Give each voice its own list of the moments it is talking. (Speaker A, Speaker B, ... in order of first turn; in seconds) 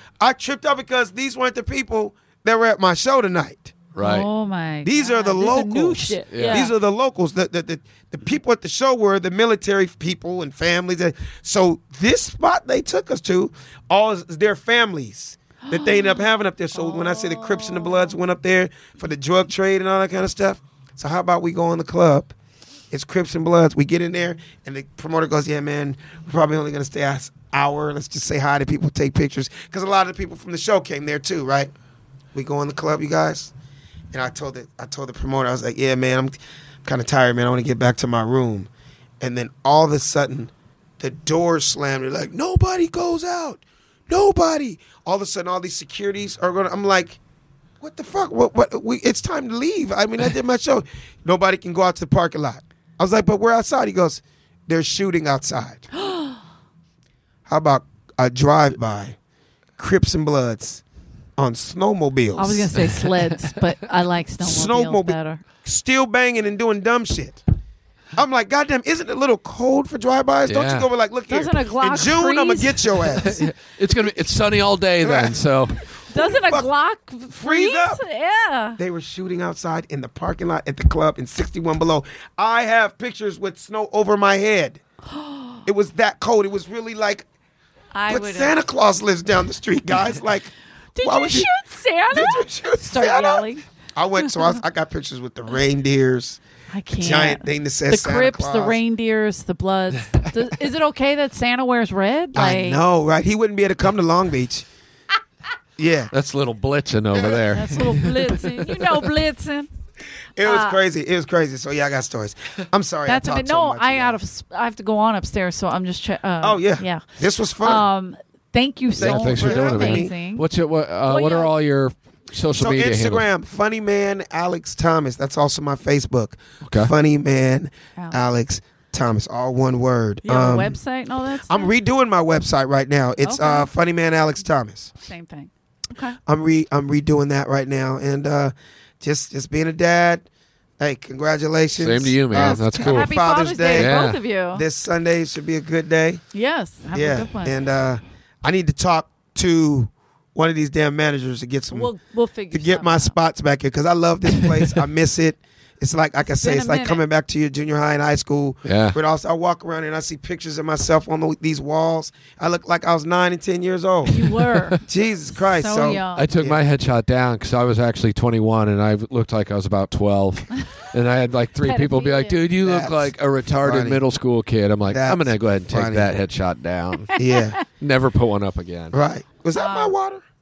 Speaker A: 0.2-3.7, 4.8-22.4, 22.9-31.7, 32.3-33.5, 34.1-38.7, 39.2-47.2, 47.8-55.9, 57.5-59.1, 59.8-60.8, 61.4-62.8, 64.4-67.4, 68.1-73.4, 75.0-75.4, 76.1-76.7, 77.3-78.0, 78.8-84.8, 85.7-87.3, 88.1-91.5, 92.1-96.4, 97.0-98.8, 102.3-104.7, 105.8-106.1, 110.4-114.2, 116.4-117.9, 119.0-120.1, 122.6-130.8, 131.5-134.9, 136.3-140.3, 140.8-146.2, 146.9-151.9, 152.5-164.3, 164.8-166.6, 172.6-174.0, 174.9-176.1, 177.2-177.6, 178.9-180.2
Speaker B: 3.9-4.3, 6.3-6.7, 70.5-70.9, 73.2-75.8, 106.1-109.0, 119.0-123.3, 126.6-126.9, 141.8-143.1, 143.7-144.2, 158.6-159.0, 164.4-164.8, 165.8-177.2, 177.7-179.0
Speaker C: 4.0-6.7, 15.6-16.2, 16.7-18.1, 56.0-56.4, 62.4-65.4, 71.3-73.4, 76.0-78.8, 85.1-85.6, 87.9-88.6, 90.9-93.6, 94.2-94.5, 96.7-102.8, 107.2-109.7, 110.4-110.8, 113.1-117.0, 117.6-120.4, 121.1-121.5, 128.0-128.2, 130.2-131.7, 133.2-133.7, 135.0-136.2, 142.3-144.6, 146.3-147.6, 151.7-153.1, 156.3-157.0, 164.1-166.2, 171.6-172.4, 177.1-177.6, 179.6-179.9